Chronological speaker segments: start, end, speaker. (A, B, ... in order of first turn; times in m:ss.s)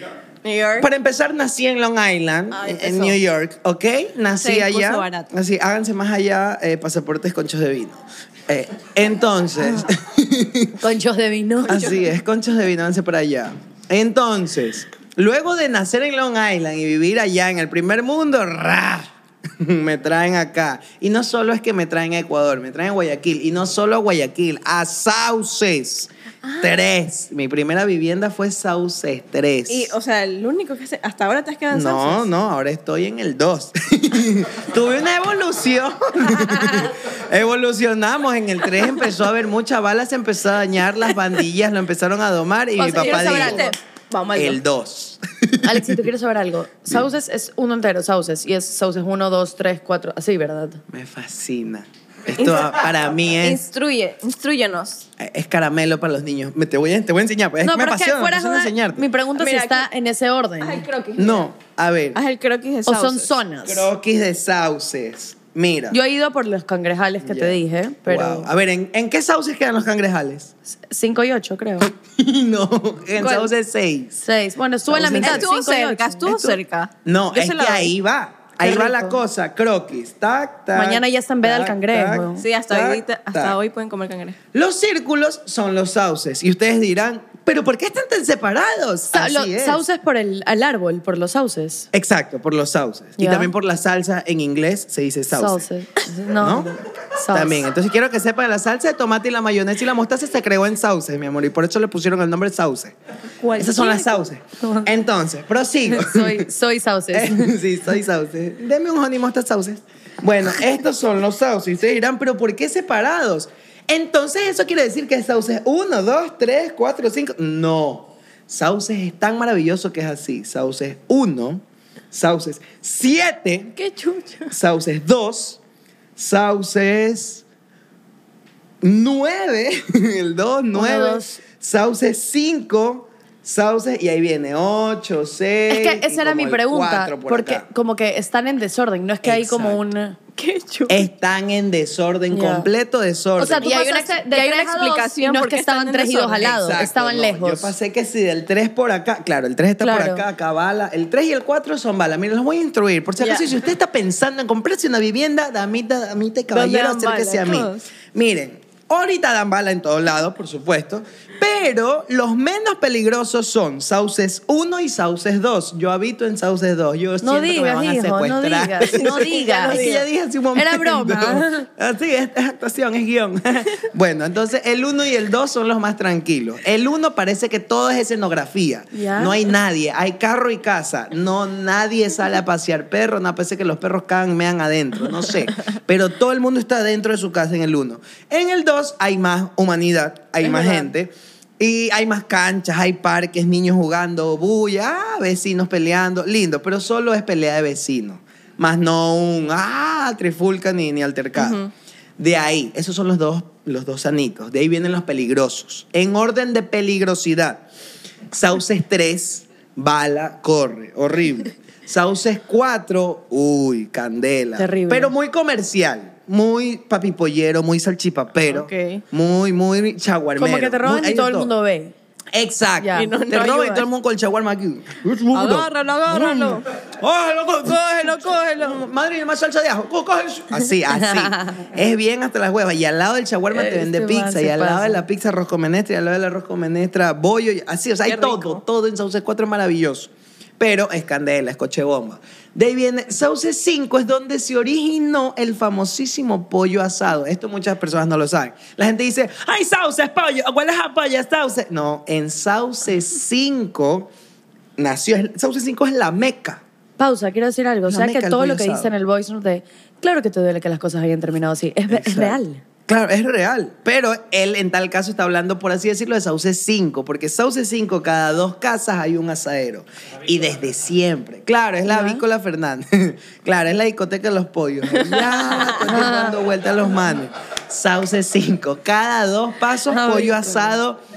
0:00.4-0:00.9 A
0:00.8-0:10.8 B
0:02.5-0:03.2 A
0:04.4-0:05.3 A
0:10.8-0:11.8 C
0:11.7-0:26.1 B
0:11.7-0:12.1 A
0:26.5-0:26.7 A
0:26.6-0:29.9 B
0:29.7-0:32.3 A
0:31.7-0:43.7 B
0:42.8-0:43.8 C
0:42.9-0:44.6 A
0:44.3-0:46.0 B
0:45.6-0:50.8 C
0:50.9-0:53.6 B
0:52.4-0:55.1 A
0:55.2-0:59.1 B
0:57.6-1:00.8 C
0:59.4-0:59.9 A
1:00.6-1:01.5 A
1:01.2-1:02.2 B
1:02.1-1:03.3 A
1:02.9-1:03.9 C
1:03.6-1:06.0 B
1:05.9-1:08.5 C
1:07.2-1:10.5 B
1:10.9-1:11.9 C
1:12.0-1:14.2 B
1:13.2-1:13.5 C
1:14.2-1:16.2 C
1:14.9-1:15.5 B
1:15.1-1:17.9 A
1:16.3-1:23.6 B
1:18.6-1:19.2 C
1:20.7-1:22.4 C
1:22.4-1:24.4 A
1:24.5-1:29.8 B
1:29.1-1:31.9 C
1:31.9-1:35.6 B
1:33.2-1:33.5 C
1:35.3-1:37.7 C
1:36.4-1:36.7 B
1:37.3-1:43.0 B
1:43.4-1:44.9 C
1:43.5-1:46.4 B
1:45.9-1:47.5 C
1:47.1-2:03.8 B
2:03.8-2:04.5 A
2:04.5-2:05.6 B
2:06.2-2:07.4 B
2:08.8-2:17.6 B
2:10.7-2:11.4 C
2:15.7-2:20.2 C
2:19.2-2:19.8 B
2:20.4-2:21.0 A
2:20.9-2:23.7 B
2:22.3-2:22.7 C
2:23.4-2:27.7 C
2:23.6-2:26.6 A
2:26.6-3:21.6 B
2:29.8-2:30.2 C
2:33.2-2:33.5 A
2:36.5-2:37.8 A
2:47.2-2:49.8 C
2:48.8-2:50.1 A
2:50.6-2:51.7 C
2:58.9-2:59.4 C
3:10.4-3:10.9 A
3:21.4-3:21.7 A
3:22.2-3:27.6 B
3:28.3-3:41.5 B
3:34.6-3:35.1 C
3:38.5-3:39.0 A
3:40.4-3:41.9 C
3:42.3-4:14.1 B
3:42.8-3:43.1 C
3:43.0-3:43.9 A
3:45.3-3:46.7 A
3:48.2-3:48.7 A
3:50.9-3:51.7 C
3:53.5-3:55.0 C
3:58.0-3:58.6 A
4:14.8-4:16.6 B
4:17.0-4:22.6 C
4:17.9-4:18.9 B
4:21.9-4:41.0 B
4:31.9-4:32.2 C
4:35.9-4:36.4 C
4:39.9-4:40.7 C